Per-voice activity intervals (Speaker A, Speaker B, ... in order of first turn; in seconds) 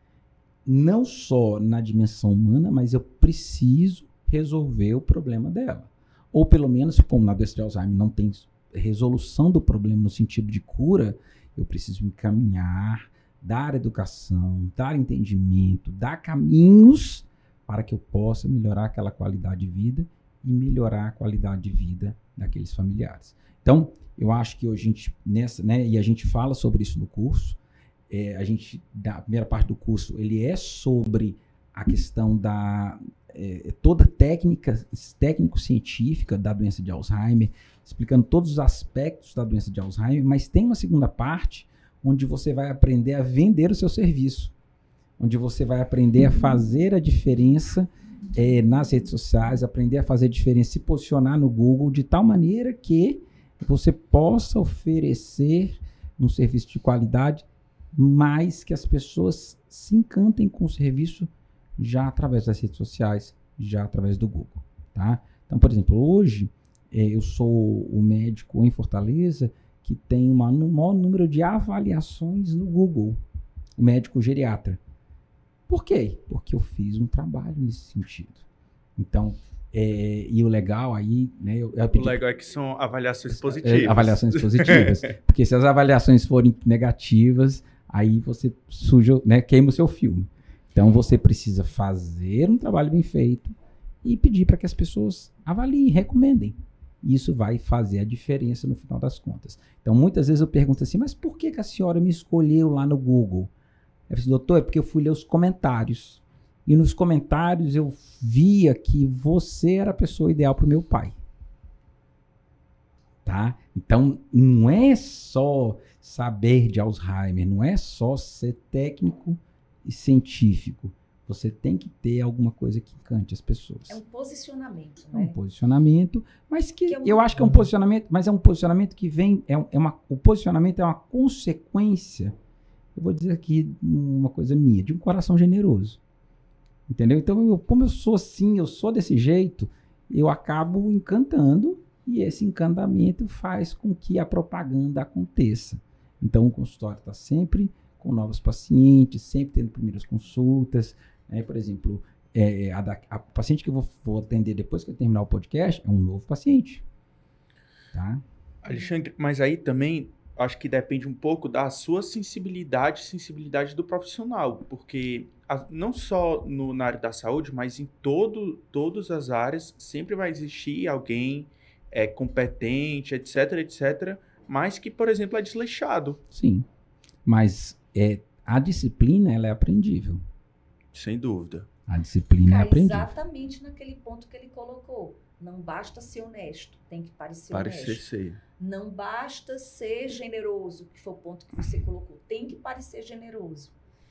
Speaker A: 0.7-27.6, 28.1-44.5, 45.2-73.2, 73.8-74.8, 75.7-78.5, 79.0-82.2, 83.3-103.5, 104.1-111.2, 113.2-124.0, 125.1-132.3, 132.9-136.0, 136.9-156.8, 157.9-158.2, 176.3-176.7, 177.3-180.2, 181.9-183.1
Speaker B: 81.9-85.1, 127.4-127.7, 158.6-176.2, 180.9-181.7, 187.5-188.4
Speaker C: 123.9-125.4, 126.9-127.4, 182.4-188.0, 188.6-193.8